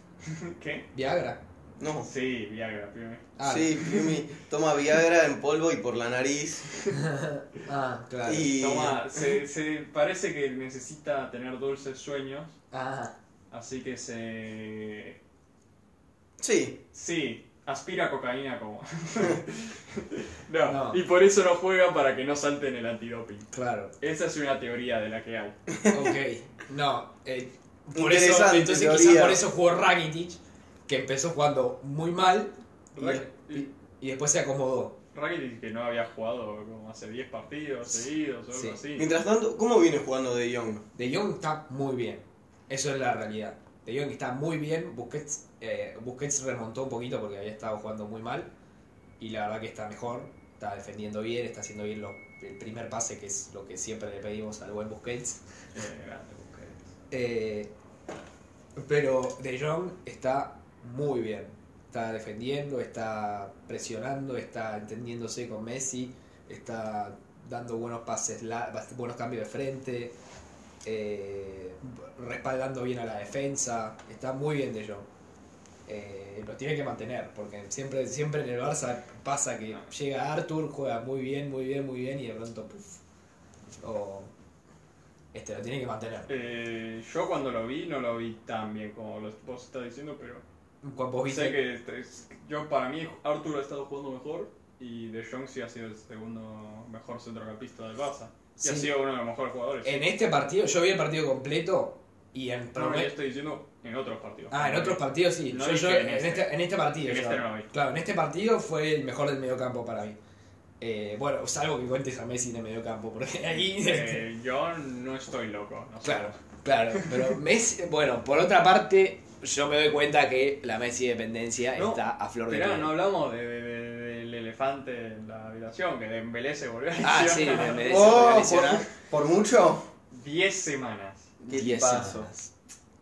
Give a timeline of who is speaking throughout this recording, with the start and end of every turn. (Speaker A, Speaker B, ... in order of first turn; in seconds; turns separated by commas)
Speaker A: 0.2-0.9, Speaker B: 0.9-1.4, Speaker C: 1.8-2.1, Speaker A: 2.0-3.3, Speaker B: 3.4-3.9, Speaker C: 3.4-6.8, Speaker B: 6.9-8.5, Speaker C: 8.2-9.2, Speaker A: 8.5-12.6, Speaker B: 12.7-13.2, Speaker A: 13.5-15.2, Speaker C: 16.4-16.8, Speaker A: 16.9-23.5, Speaker B: 20.6-21.0, Speaker B: 23.5-23.9, Speaker A: 24.0-25.6, Speaker B: 25.9-35.0, Speaker C: 27.9-29.4, Speaker A: 32.9-33.7, Speaker A: 35.1-39.1, Speaker B: 38.5-38.8, Speaker C: 39.0-40.9, Speaker B: 41.0-48.5, Speaker B: 49.2-55.4, Speaker A: 55.7-56.9, Speaker B: 57.1-57.7, Speaker B: 58.8-70.2, Speaker B: 70.8-75.1, Speaker B: 75.9-83.0, Speaker B: 83.8-84.3, Speaker B: 85.3-86.3, Speaker A: 86.3-90.4, Speaker B: 90.8-91.6, Speaker A: 91.2-100.1, Speaker B: 98.6-98.9, Speaker B: 99.8-103.1, Speaker A: 102.8-107.7, Speaker B: 104.5-110.2, Speaker B: 110.8-114.2, Speaker A: 113.8-116.4, Speaker B: 116.0-122.9, Speaker A: 116.9-117.3, Speaker A: 121.8-128.5, Speaker B: 127.0-128.9, Speaker C: 127.8-129.9, Speaker A: 130.1-131.3, Speaker C: 131.4-132.3, Speaker B: 131.5-132.5